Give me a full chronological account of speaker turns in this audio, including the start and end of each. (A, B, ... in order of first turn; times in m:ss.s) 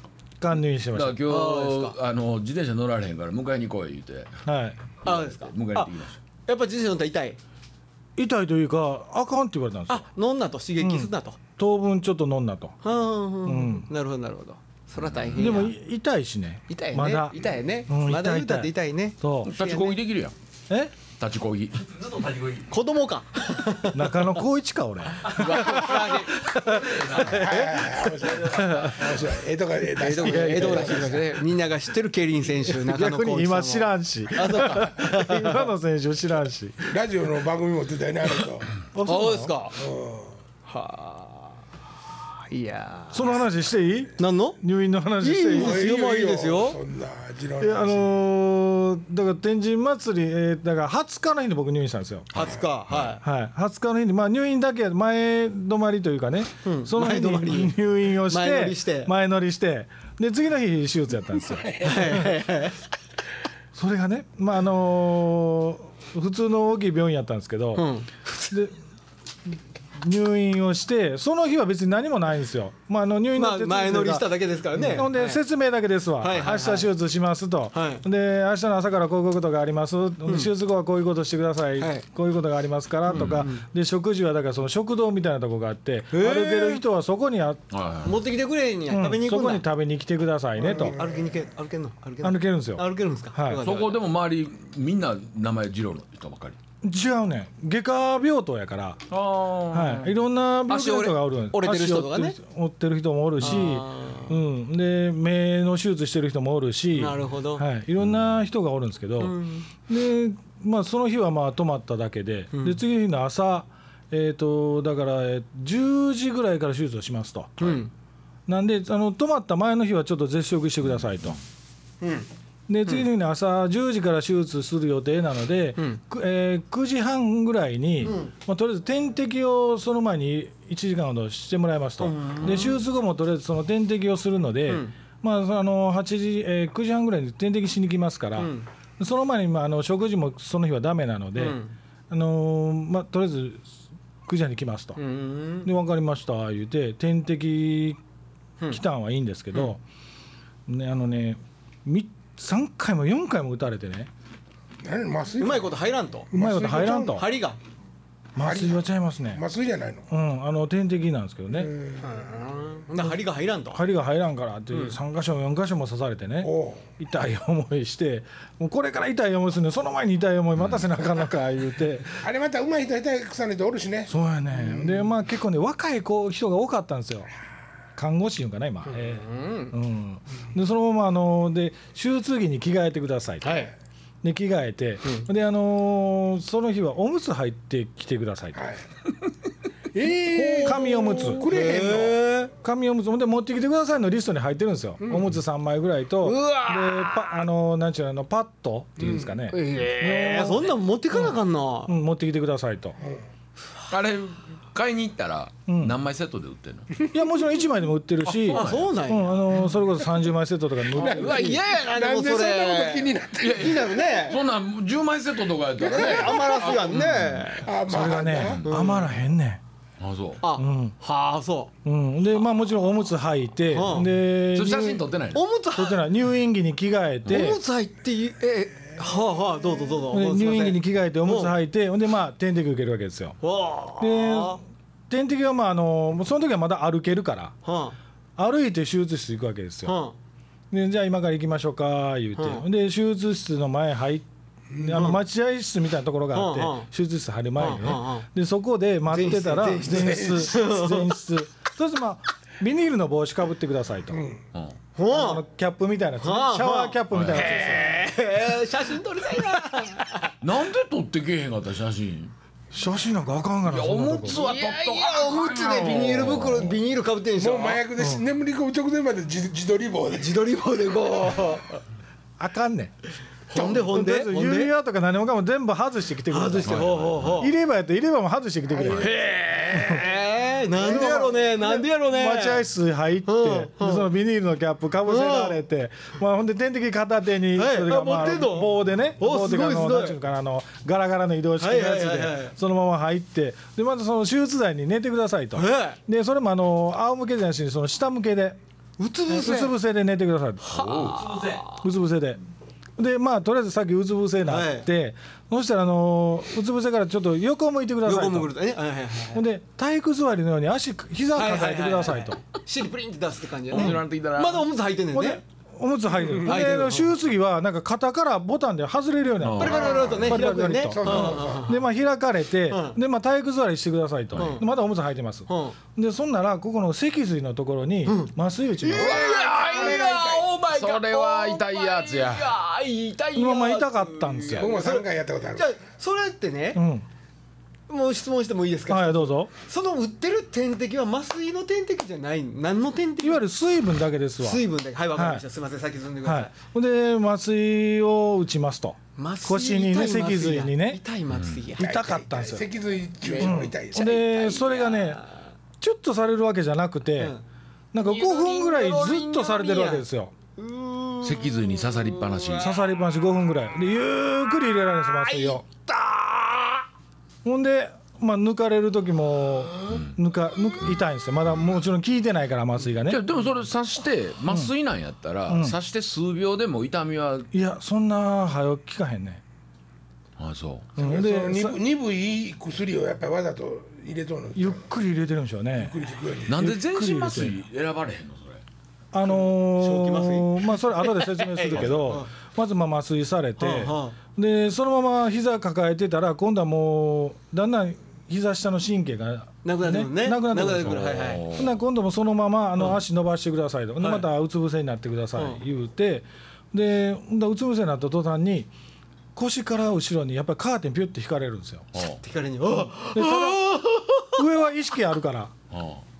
0:00.4-0:01.2 A
0:00.9-0:04.4 B
0:01.2-0:02.0 C
0:04.4-0:04.8 A
0:05.0-0:06.2 B
0:05.0-0:07.4 C
0:08.2-0:10.1 A
0:09.9-0:11.4 C
0:10.8-0:12.8 A
0:12.8-0:15.7 C
0:13.4-0:13.9 A
0:15.0-0:15.6 B
0:15.4-0:19.5 A
0:16.7-0:20.0 C
0:19.4-0:20.3 B
0:21.2-0:21.8 B
0:21.8-0:22.7 D
0:22.7-0:24.4 C
0:23.9-0:25.7 A
0:25.2-0:27.4 D
0:25.3-0:28.0 C
0:26.5-0:27.9 A
0:27.3-0:31.3 E
0:28.2-0:28.9 D
0:28.4-0:29.1 A
0:30.0-0:35.7 C
0:30.1-0:31.2 A
0:32.6-0:36.9 A
0:36.8-0:38.8 E
0:38.9-0:39.5 A
0:39.0-0:39.8 C
0:39.7-0:40.4 E
0:40.6-0:41.6 C
0:42.5-0:43.4 C
0:43.1-0:45.9 A
0:44.2-0:44.6 C
0:45.2-0:46.8 C
0:45.5-0:48.1 E
0:47.6-0:52.3 A
0:52.3-0:53.2 C
0:52.3-0:53.1 B
0:53.2-1:02.3 A
0:56.6-0:59.1 C
1:01.8-1:02.8 C
1:03.7-1:07.9 A
1:07.7-1:08.5 C
1:08.5-1:08.7 A
1:09.5-1:27.6 A
1:13.4-1:15.4 C
1:16.2-1:16.9 C
1:17.7-1:18.0 C
1:20.2-1:20.5 C
1:21.8-1:22.0 C
1:23.1-1:23.6 C
1:23.1-1:23.4 B
1:26.1-1:26.8 C
1:27.7-1:28.2 B
1:28.0-1:29.7 C
1:28.9-1:31.0 A
1:30.6-1:31.4 E
1:30.8-1:34.0 C
1:32.2-1:33.6 A
1:33.6-1:36.6 B
1:36.8-1:39.0 A
1:39.1-1:40.2 B
1:39.7-1:49.4 A
1:40.7-1:42.4 C
1:43.4-1:44.4 C
1:46.9-1:47.6 C
1:48.0-1:48.3 B
1:49.2-1:49.7 C
1:49.9-1:57.8 A
1:52.5-1:52.8 C
1:57.6-1:57.9 C
1:58.5-2:01.4 A
2:02.0-2:02.3 C
2:02.7-2:21.6 A
2:08.0-2:08.3 C
2:12.0-2:12.8 C
2:14.7-2:14.9 C
2:18.4-2:18.7 C
2:21.4-2:21.7 C
2:22.1-2:23.7 A
2:24.2-2:25.0 A
2:25.0-2:25.7 C
2:25.6-2:28.0 A
2:28.7-2:29.8 A
2:30.7-2:34.1 A
2:34.8-2:35.8 E
2:35.4-2:36.3 C
2:36.3-2:37.2 E
2:36.3-2:37.2 A
2:37.0-2:37.6 C
2:38.4-2:39.4 A
2:38.4-2:40.1 E
2:40.1-2:41.7 A
2:41.5-2:42.2 E
2:42.0-2:43.8 C
2:43.7-2:52.2 A
2:44.7-2:45.0 C
2:46.4-2:46.8 E
2:50.6-2:50.8 B
2:52.2-2:54.1 E
2:54.1-2:57.3 A
2:58.0-3:03.7 A
2:58.8-2:59.7 C
3:03.4-3:03.7 C
3:04.2-3:08.7 A
3:08.6-3:08.8 E
3:09.9-3:12.2 E
3:10.3-3:12.5 C
3:10.6-3:11.4 A
3:12.6-3:23.0 A
3:16.2-3:17.4 C
3:19.0-3:19.3 E
3:19.5-3:21.9 C
3:23.9-3:26.9 B
3:25.7-3:26.0 A
3:27.1-3:31.6 A
3:28.2-3:28.9 B
3:28.5-3:29.5 C
3:30.9-3:34.1 E
3:30.9-3:34.4 C
3:33.4-3:37.5 B
3:35.8-3:37.0 E
3:35.8-3:37.7 C
3:37.6-3:38.6 E
3:37.8-3:39.6 A
3:38.4-3:38.8 B
3:38.6-3:39.1 C
3:40.0-3:40.4 B
3:40.4-3:41.7 C
3:40.6-3:40.9 A
3:41.8-3:45.0 A
3:43.7-3:44.1 C
3:44.5-3:45.4 B
3:45.3-3:46.0 C
3:45.7-3:47.6 A
3:47.2-3:51.6 C
3:50.1-3:53.4 A
3:53.4-3:54.6 C
3:54.0-3:57.6 A
3:57.6-3:58.0 C
3:58.4-4:00.0 A
3:59.8-4:00.2 C
4:00.7-4:04.2 A
4:02.4-4:02.6 C
4:04.7-4:05.0 E
4:04.8-4:14.2 A
4:04.9-4:05.2 C
4:06.3-4:06.9 C
4:07.6-4:08.3 C
4:09.1-4:11.2 C
4:09.9-4:10.5 E
4:14.1-4:14.4 E
4:15.0-4:15.4 C
4:15.0-4:18.0 A
4:16.2-4:20.4 C
4:17.1-4:17.6 B
4:20.4-4:22.3 B
4:22.7-4:24.4 A
4:23.6-4:26.8 B
4:24.2-4:27.8 C
4:27.4-4:30.4 E
4:28.0-4:28.2 A
4:30.2-4:31.8 C
4:32.4-4:32.9 A
4:33.5-4:34.7 C
4:33.5-4:33.9 E
4:33.7-4:39.1 A
4:36.3-4:37.5 C
4:36.6-4:37.4 B
4:38.7-4:39.5 E
4:38.9-4:42.7 C
4:39.7-4:40.0 A
4:40.7-4:58.6 A
4:43.2-4:44.1 C
4:45.0-4:45.6 C
4:47.5-4:50.2 C
4:51.6-4:52.5 C
4:55.5-4:56.0 C
4:59.0-4:59.7 C
4:59.3-5:00.6 A
5:00.7-5:01.2 B
5:00.7-5:01.8 C
5:01.1-5:01.8 D
5:01.8-5:02.4 A
5:03.0-5:08.5 A
5:04.4-5:04.9 C
5:08.0-5:09.4 C
5:09.3-5:12.4 A
5:11.3-5:15.4 C
5:13.7-5:14.7 B
5:13.7-5:14.0 A
5:15.1-5:29.2 A
5:16.4-5:17.2 C
5:19.4-5:20.3 B
5:19.6-5:21.8 C
5:19.7-5:21.7 E
5:22.7-5:23.0 C
5:24.3-5:24.6 B
5:24.4-5:24.7 C
5:25.5-5:25.8 C
5:28.0-5:36.8 C
5:28.9-5:30.5 E
5:28.9-5:32.6 B
5:33.3-5:34.8 A
5:34.5-5:35.7 E
5:36.7-5:37.0 A
5:37.9-5:43.4 C
5:38.9-5:39.5 A
5:43.2-5:44.6 A
5:44.4-5:46.5 C
5:45.1-5:45.4 A
5:46.2-5:51.0 A
5:49.2-5:52.0 C
5:51.3-5:51.6 B
5:51.8-5:52.7 A
5:51.8-5:54.1 E
5:53.2-5:55.4 C
5:53.4-5:55.2 A
5:55.8-5:57.3 A
5:57.2-5:57.4 C
5:57.9-6:00.3 A
5:58.0-6:02.9 C
6:01.2-6:02.8 B
6:02.6-6:05.6 A
6:05.0-6:06.8 C
6:07.4-6:13.2 A
6:09.9-6:10.2 B
6:13.0-6:17.5 B
6:15.5-6:15.8 A
6:17.5-6:19.4 A
6:20.4-6:20.9 B
6:21.0-6:21.8 A
6:21.0-6:24.9 E
6:24.5-6:26.0 A
6:25.7-6:26.6 E
6:26.5-6:28.6 B
6:26.5-6:27.6 A
6:29.1-6:48.7 A
6:29.2-6:32.3 C
6:31.8-6:32.2 B
6:33.6-6:34.2 C
6:39.6-6:41.4 C
6:40.8-6:41.8 B
6:44.0-6:44.3 C
6:45.3-6:45.6 C
6:49.3-6:51.9 A
6:51.9-6:52.2 B
6:52.0-6:54.4 C
6:52.9-6:53.7 A
6:54.3-6:55.5 A
6:55.7-6:56.0 B